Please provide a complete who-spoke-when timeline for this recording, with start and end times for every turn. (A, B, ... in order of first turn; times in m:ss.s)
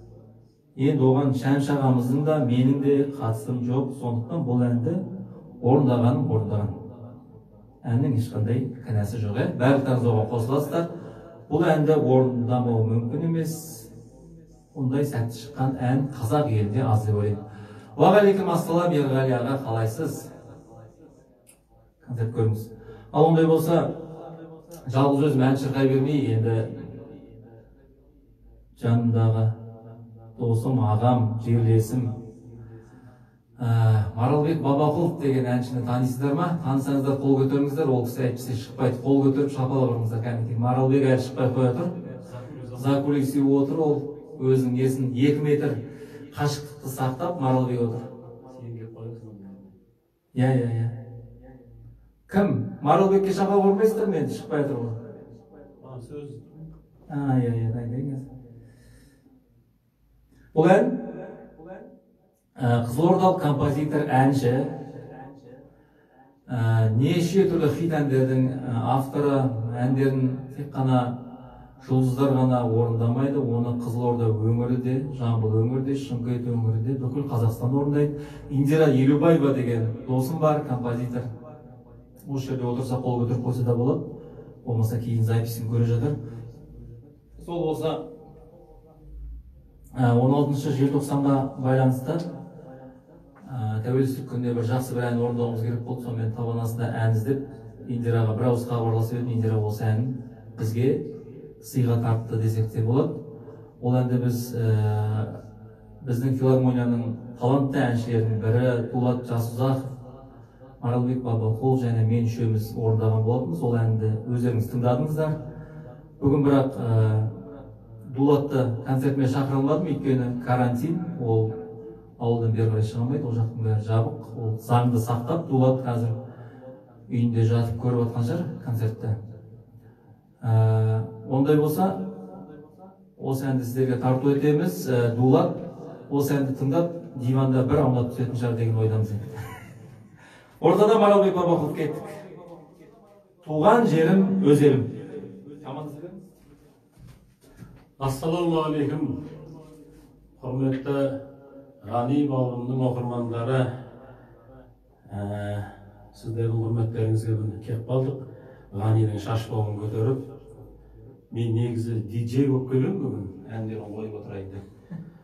0:00.8-0:05.0 A
0:05.6-0:06.7 A
0:07.8-0:10.9 A
0:11.5-0:13.9 A
0:14.7-0:17.4 A
0:18.0-0:20.3 A
0:22.0-0:24.0 A
0:24.9-0:26.9 A
0:28.8-0:29.5 A
0:30.4-0:32.1 A
0:33.6-0:41.9 A
0:42.1-0:42.9 B
0:42.8-0:45.8 A
0:46.3-0:48.1 A
0:48.5-0:49.8 B
0:50.4-0:50.9 A
0:52.3-0:55.0 A
0:55.8-0:56.6 B
0:57.1-0:58.3 A
1:00.5-1:01.1 A
1:02.6-1:04.8 A
1:06.5-1:11.2 A
1:11.8-1:21.3 A
1:22.3-1:24.0 A
1:24.6-1:26.2 A
1:27.4-1:28.0 A
1:30.0-1:32.2 A
1:33.4-1:43.2 A
1:43.8-1:45.4 A
1:46.0-1:49.9 A
1:50.8-1:55.4 A
1:56.2-1:57.3 A
1:58.1-2:01.6 A
2:02.2-2:06.2 A
2:07.1-2:09.2 A
2:10.4-2:12.1 A
2:13.2-2:19.3 A
2:20.6-2:22.2 A
2:23.4-2:24.9 A
2:25.6-2:26.2 A
2:28.0-2:29.2 B
2:30.4-2:31.1 B
2:31.8-2:33.6 B
2:35.1-2:38.2 B
2:38.7-2:40.2 B
2:41.3-2:44.6 B